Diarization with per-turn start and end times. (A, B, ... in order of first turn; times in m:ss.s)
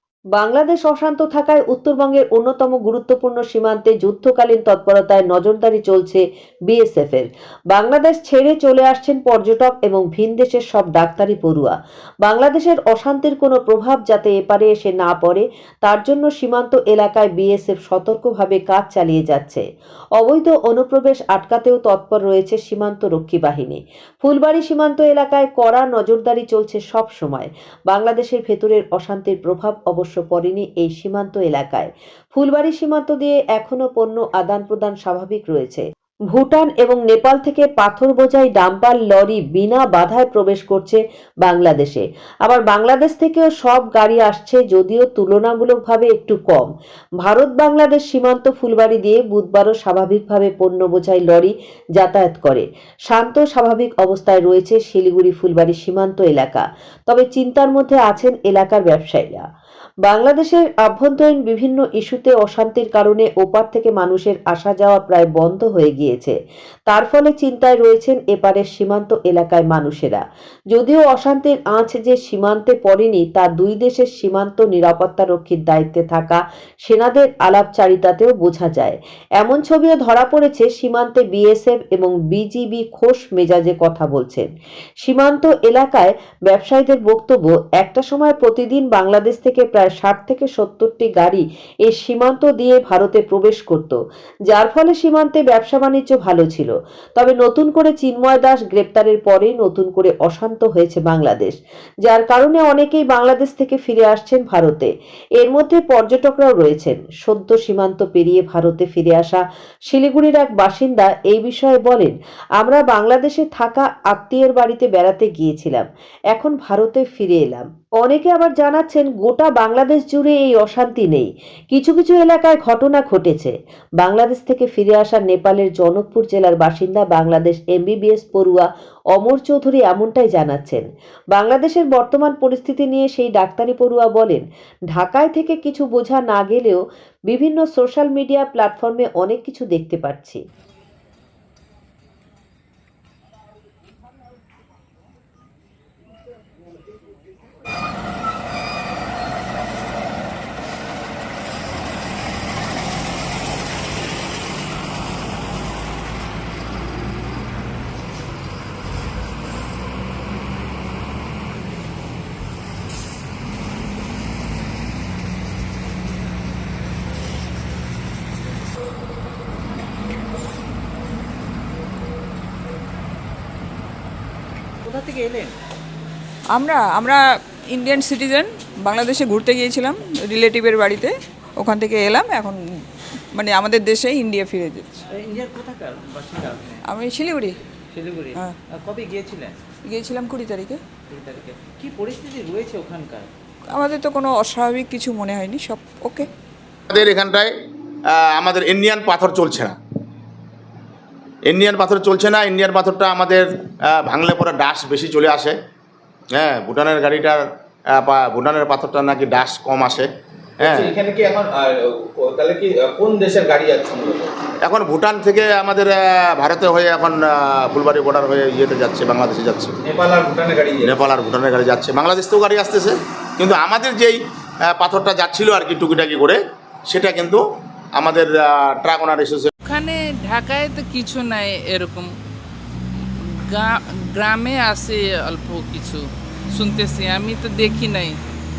0:00.3-0:11.7 A
0:12.2-0:19.6 A
0:20.2-0:46.7 A
0:47.2-0:59.4 A
1:00.1-1:06.4 A
1:06.9-1:24.5 A
1:25.0-2:10.8 A
2:11.4-2:16.8 A
2:17.3-2:20.4 A
2:54.8-2:55.6 B
2:56.5-3:02.8 C
3:03.3-3:05.0 C
3:05.1-3:06.8 B
3:06.8-3:07.6 C
3:07.9-3:09.5 B
3:09.8-3:10.8 C
3:11.1-3:13.3 B
3:13.7-3:16.3 C
3:16.9-3:17.5 D
3:18.1-3:19.8 D
3:21.5-3:25.5 D
3:26.4-3:27.4 D
3:27.9-3:30.1 D
3:30.6-3:30.9 D
3:30.6-3:34.3 E
3:34.6-3:39.8 D
3:39.8-3:40.9 E
3:40.8-3:47.4 D
3:48.0-3:49.5 D
3:49.6-3:52.1 F
3:53.4-3:58.1 F